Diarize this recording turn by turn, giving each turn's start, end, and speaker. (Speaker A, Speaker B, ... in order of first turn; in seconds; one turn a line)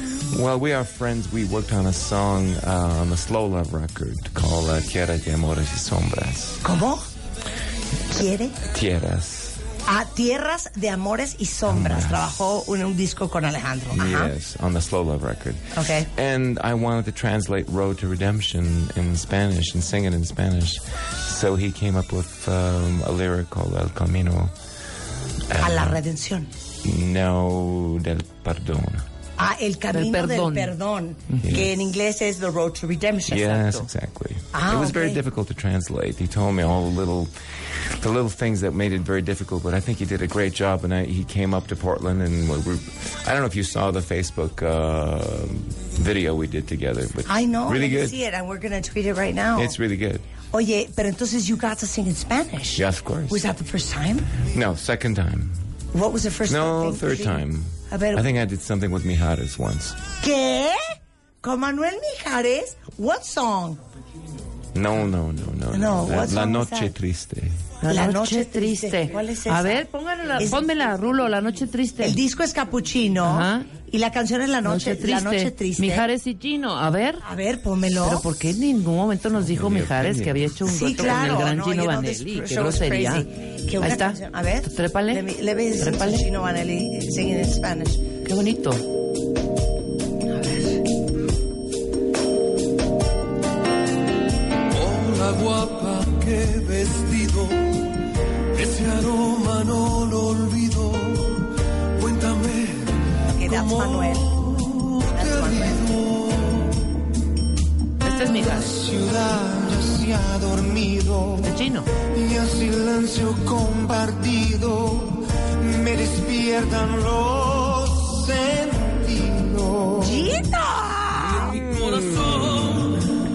Speaker A: 0.3-6.6
Speaker B: 6.6-7.1
Speaker B: 8.1-8.6
Speaker A: 8.6-9.7
Speaker B: 9.9-14.3
Speaker A: 11.7-12.4
Speaker A: 13.9-24.5
Speaker B: 15.8-16.1
Speaker A: 25.5-26.0
Speaker B: 25.6-26.5
Speaker A: 26.8-29.1
Speaker B: 29.4-33.6
Speaker C: 29.9-30.7
Speaker A: 31.4-31.7
Speaker A: 33.3-48.2
Speaker C: 33.5-33.9
Speaker B: 34.5-35.2
Speaker B: 47.3-49.8
Speaker A: 49.5-50.3
Speaker B: 50.5-54.3
Speaker A: 52.8-53.4
Speaker A: 54.5-55.6
Speaker B: 55.9-58.2
Speaker A: 56.5-60.0
Speaker B: 60.2-63.8
Speaker A: 64.7-67.6
Speaker B: 65.7-66.9
Speaker C: 67.8-72.2
Speaker B: 67.9-69.8
Speaker B: 70.4-70.6
Speaker B: 72.0-76.1
Speaker C: 73.3-73.7
Speaker C: 74.6-77.2
Speaker B: 77.2-78.3
Speaker C: 78.0-83.3
Speaker A: 79.4-80.5
Speaker B: 80.6-88.0
Speaker C: 83.8-86.3
Speaker C: 88.2-88.8
Speaker B: 90.3-90.8
Speaker D: 94.8-97.8
Speaker D: 98.5-101.4
Speaker D: 102.0-102.9
Speaker B: 103.3-104.4
Speaker D: 103.5-106.8
Speaker B: 105.1-105.8
Speaker C: 108.0-108.8
Speaker D: 108.4-120.3
Speaker C: 111.4-111.9
Speaker B: 120.0-121.6
Speaker D: 121.4-122.9
Speaker A: 121.5-122.9